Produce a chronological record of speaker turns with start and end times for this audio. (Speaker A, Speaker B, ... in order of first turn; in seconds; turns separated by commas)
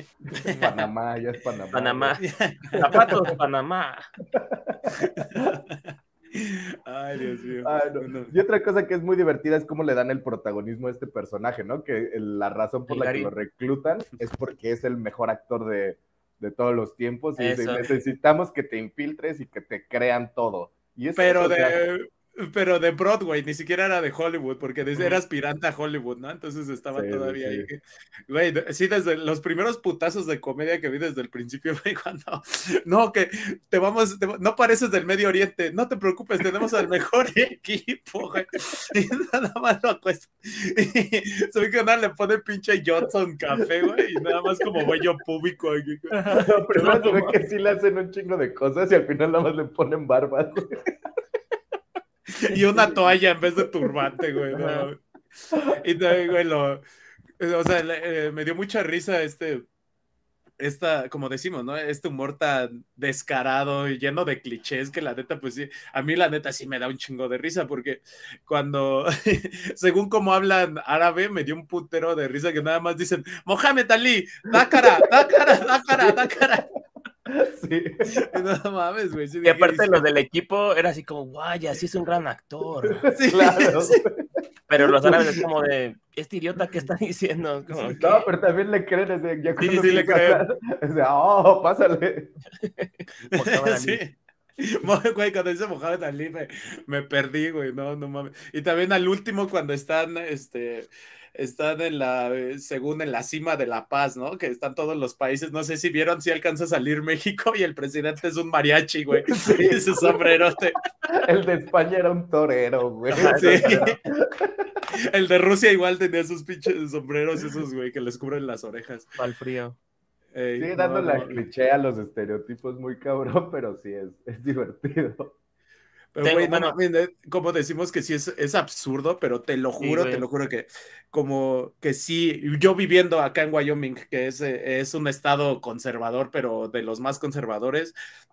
Speaker A: 0.4-0.7, Speaker B: 0.4-2.2, Speaker A: 1.7-2.2, Speaker C: 2.2-3.3, Speaker A: 2.8-4.1, Speaker B: 4.3-5.0, Speaker C: 5.0-5.8, Speaker C: 6.3-8.3, Speaker B: 7.6-21.8, Speaker A: 12.9-13.3, Speaker A: 17.4-17.9, Speaker C: 21.2-46.2, Speaker B: 26.9-27.7, Speaker A: 46.1-47.3, Speaker B: 46.3-50.8, Speaker C: 52.4-56.8, Speaker B: 52.8-53.1, Speaker A: 54.5-54.9, Speaker C: 57.4-59.7, Speaker C: 60.6-76.7, Speaker B: 74.5-76.5, Speaker B: 77.3-78.4, Speaker C: 78.1-80.0, Speaker A: 79.4-83.0, Speaker B: 83.0-84.3, Speaker C: 83.1-84.0, Speaker A: 84.7-88.2, Speaker B: 88.0-92.4, Speaker C: 89.6-90.4, Speaker A: 92.6-94.0, Speaker C: 93.3-110.8, Speaker B: 109.2-110.4, Speaker B: 111.2-114.8, Speaker A: 113.1-114.0, Speaker C: 113.4-113.9, Speaker C: 114.9-119.1, Speaker A: 119.2-119.8, Speaker C: 120.3-121.4, Speaker B: 120.6-125.4, Speaker C: 126.1-137.9, Speaker A: 126.2-126.8, Speaker A: 129.8-130.2